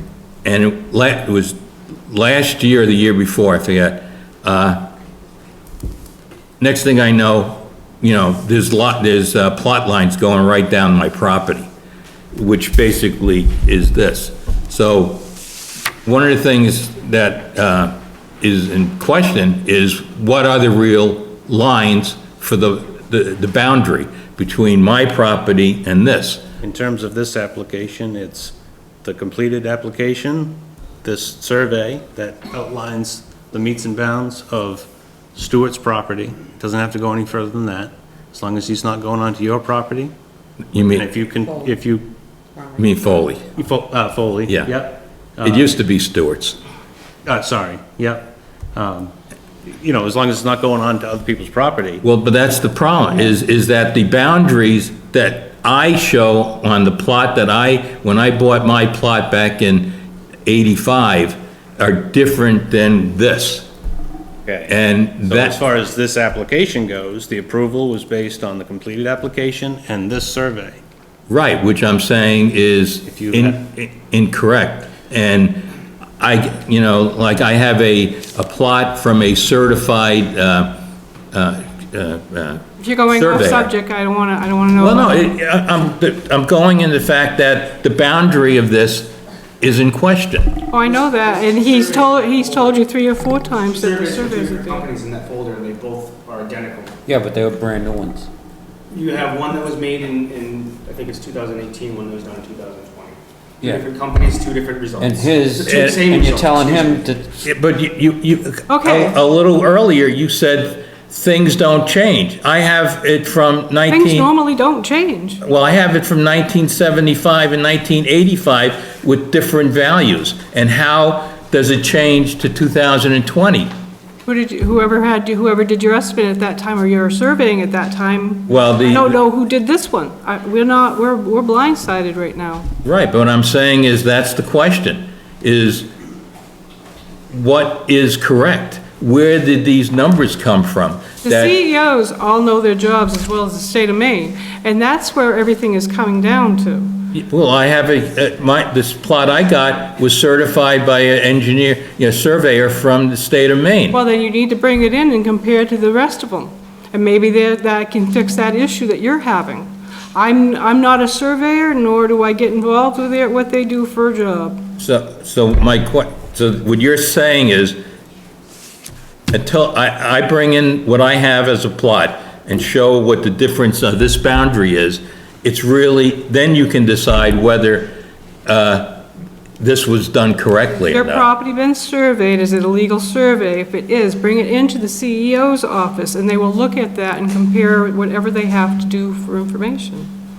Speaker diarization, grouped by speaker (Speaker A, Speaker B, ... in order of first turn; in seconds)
Speaker A: 0.5-1.6, 2.1-4.9, 6.6-11.7, 12.3-15.2, 16.1-26.4, 40.7-41.1, 42.8-43.5, 44.5-44.8, 45.4-46.6, 52.0-60.0, 60.5-63.7, 64.7-65.6, 71.3-75.7, 76.2-80.8, 81.3-83.7, 84.8-90.6, 105.7-106.0, 107.4-114.3, 115.4-123.7, 128.5-129.2, 132.8-135.9, 137.3-141.6, 147.1-154.0, 164.8-167.8, 169.3-179.0, 179.6-181.3
Speaker B: 26.6-40.1, 40.9-42.1, 43.5-45.7, 47.3-52.0, 65.3-70.8, 73.1-73.6
Speaker C: 82.8-85.3, 90.7-94.9, 108.7-109.2, 113.9-115.4, 124.3-132.7, 141.2-147.0, 153.9-164.6, 180.8-190.1
Speaker D: 90.9-92.8, 93.7-97.0, 98.9-107.0
Speaker E: 97.1-98.3, 105.0-107.3